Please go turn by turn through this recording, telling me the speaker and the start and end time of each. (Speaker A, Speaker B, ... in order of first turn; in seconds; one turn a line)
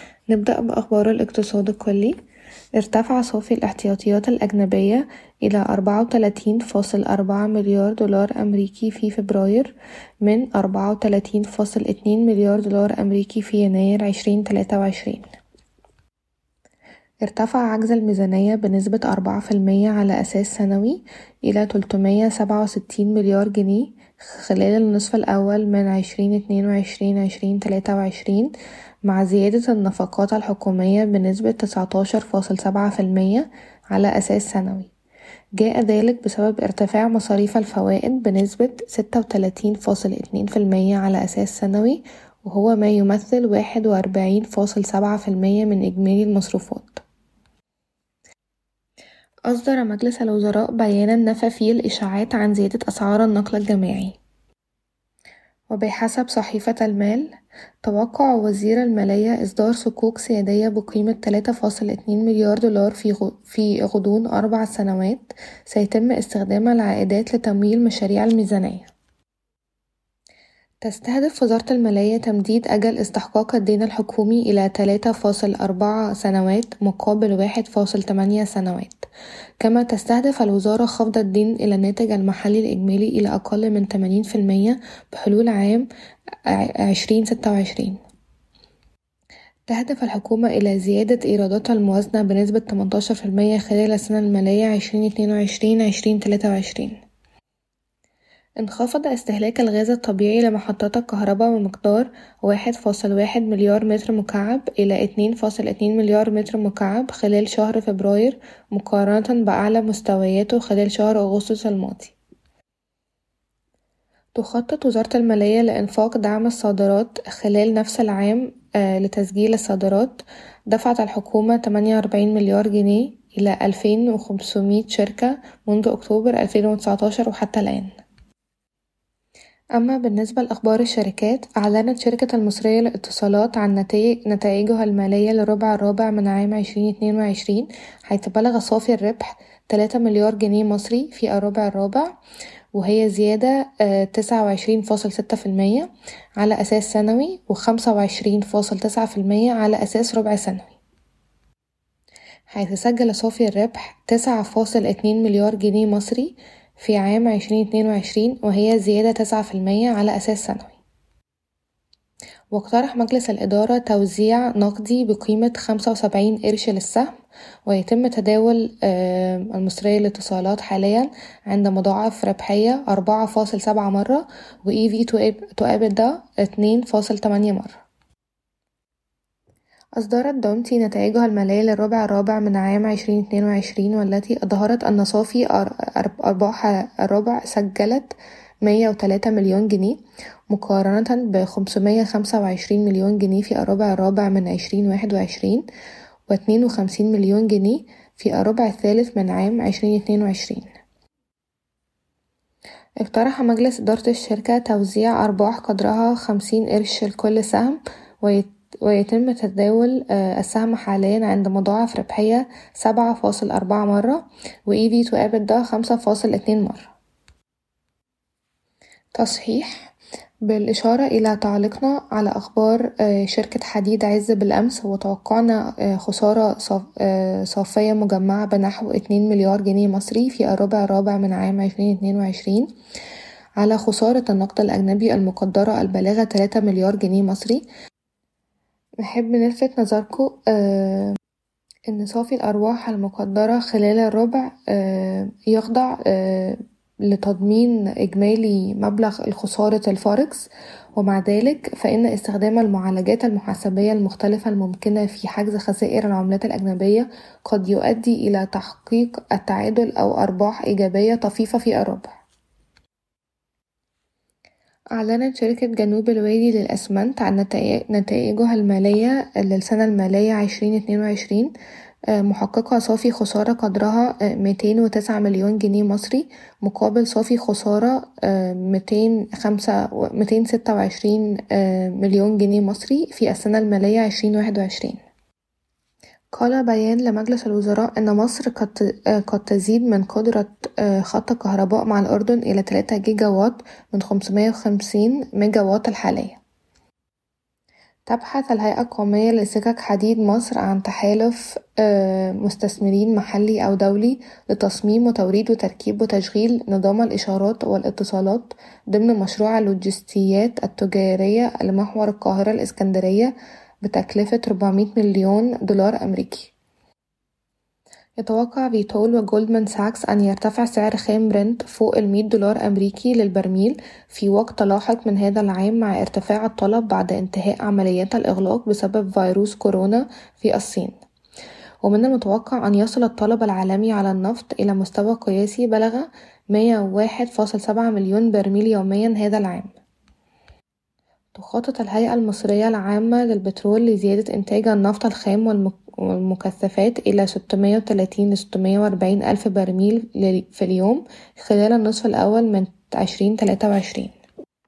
Speaker A: 0.3-2.1
Speaker A: 2.8-15.3
Speaker A: 17.2-28.5
Speaker A: 29.0-34.9
Speaker A: 35.6-47.0
Speaker A: 49.5-54.2
Speaker A: 55.7-68.9
Speaker A: 70.8-79.1
Speaker A: 79.6-85.9
Speaker A: 86.5-88.0
Speaker A: 89.7-97.0
Speaker A: 98.6-112.2
Speaker A: 114.3-127.9
Speaker A: 129.8-142.2
Speaker A: 142.7-150.8
Speaker A: 152.5-160.8
Speaker A: 162.5-167.1
Speaker A: 167.7-177.8
Speaker A: 180.0-195.7
Speaker A: 196.3-200.7
Speaker A: 203.0-216.9
Speaker A: 219.2-219.9
Speaker A: 220.5-232.7
Speaker A: 233.6-237.6
Speaker A: 239.0-241.2
Speaker A: 241.9-262.2
Speaker A: 264.9-271.5
Speaker A: 272.1-285.0
Speaker A: 286.3-296.4
Speaker A: 298.1-316.5
Speaker A: 318.2-331.0
Speaker A: 331.8-339.7
Speaker A: 341.3-354.1